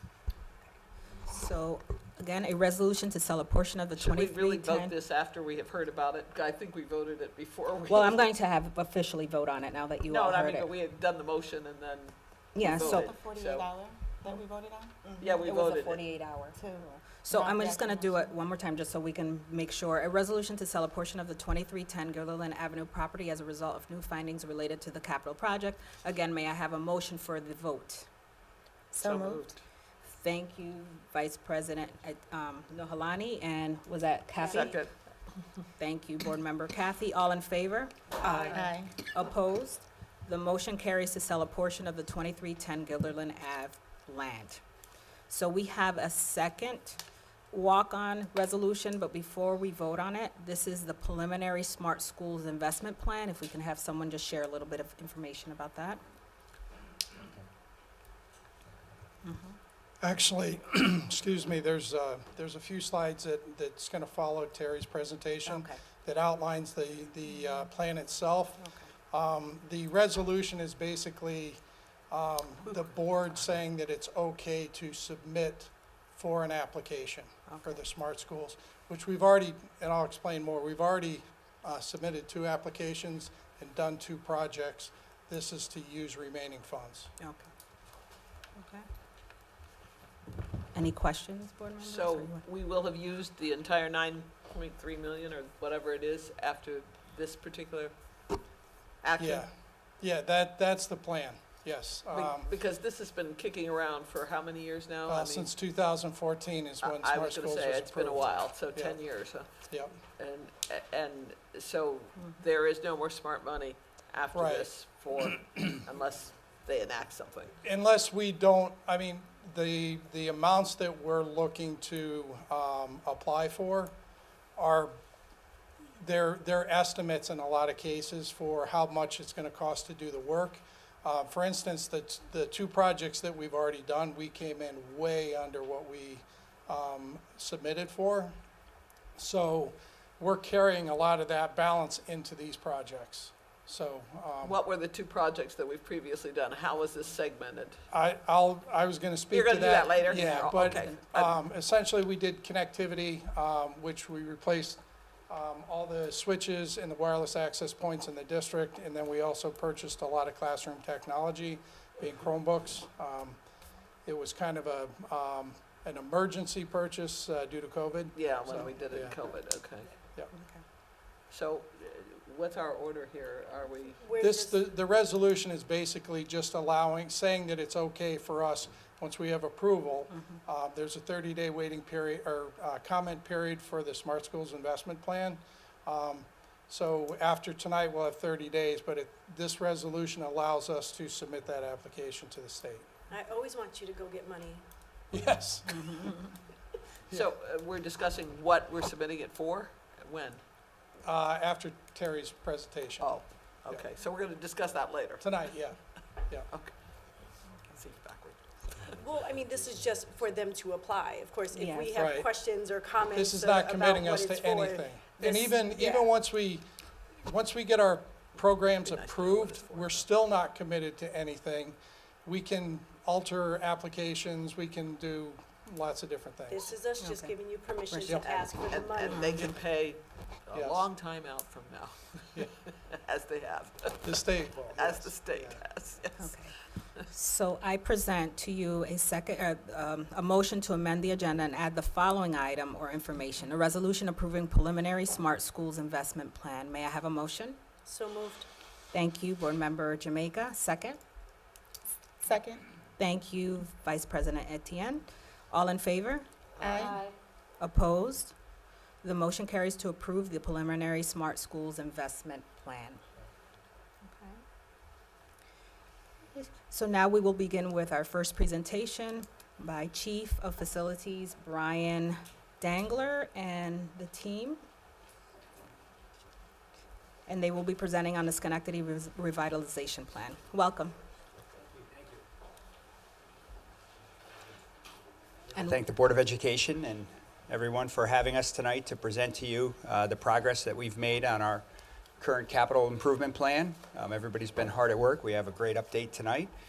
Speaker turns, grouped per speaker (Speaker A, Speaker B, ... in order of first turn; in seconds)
Speaker A: 1.2-4.9, 7.9-10.7, 12.5-13.1, 15.4-16.6, 17.2-28.1, 30.0-34.8, 35.8-38.5, 39.0-44.6, 45.3-47.0, 47.5-56.0, 59.2-59.5, 65.4-65.8, 68.6-68.9, 77.5-77.8, 87.2-87.5, 88.5-88.8, 90.7-92.4, 150.1-151.0, 170.3-170.6, 180.1-180.4, 195.7-196.3, 211.6-211.9, 227.0-227.3, 227.9-228.2, 229.1-229.4, 236.2-236.6, 237.1-247.6, 248.9-251.0, 253.0-256.2, 257.6-258.3, 259.0-263.0, 264.0-264.4, 266.3-274.6, 277.3-280.9, 285.5-285.8
Speaker B: 4.0-8.2, 10.1-13.8, 15.2-16.1, 29.0-29.5, 34.5-34.9, 91.8-97.9, 99.0-99.5, 102.1-105.5, 106.8-109.5, 110.2-117.5, 144.4-147.8, 149.3-151.4, 168.1-169.9, 171.3-174.0, 197.1-200.4, 203.0-205.4, 206.5-206.8, 207.7-209.0, 218.8-220.1, 228.6-236.4
Speaker C: 12.6-15.5, 16.5-18.3, 28.9-29.5, 38.4-38.9, 252.2-252.6, 256.6-257.1
Speaker D: 34.4-34.8, 38.2-38.8, 174.0-174.6, 193.1-194.6, 209.0-216.1, 226.5-229.5, 247.8-248.5
Speaker E: 60.0-87.1, 99.2-102.5, 105.1-109.0, 109.7-109.9, 114.3-114.7, 117.6-123.9, 124.5-125.0, 126.0-138.3, 139.2-144.6, 147.9-163.4, 164.0-169.2, 174.2-192.9, 195.1-196.0, 201.0-203.8, 205.2-206.5, 211.9-212.3, 213.1-216.6, 217.2-226.8, 228.1-228.3, 230.5-230.8, 234.0-235.6
Speaker F: 285.5-291.6, 292.2-296.5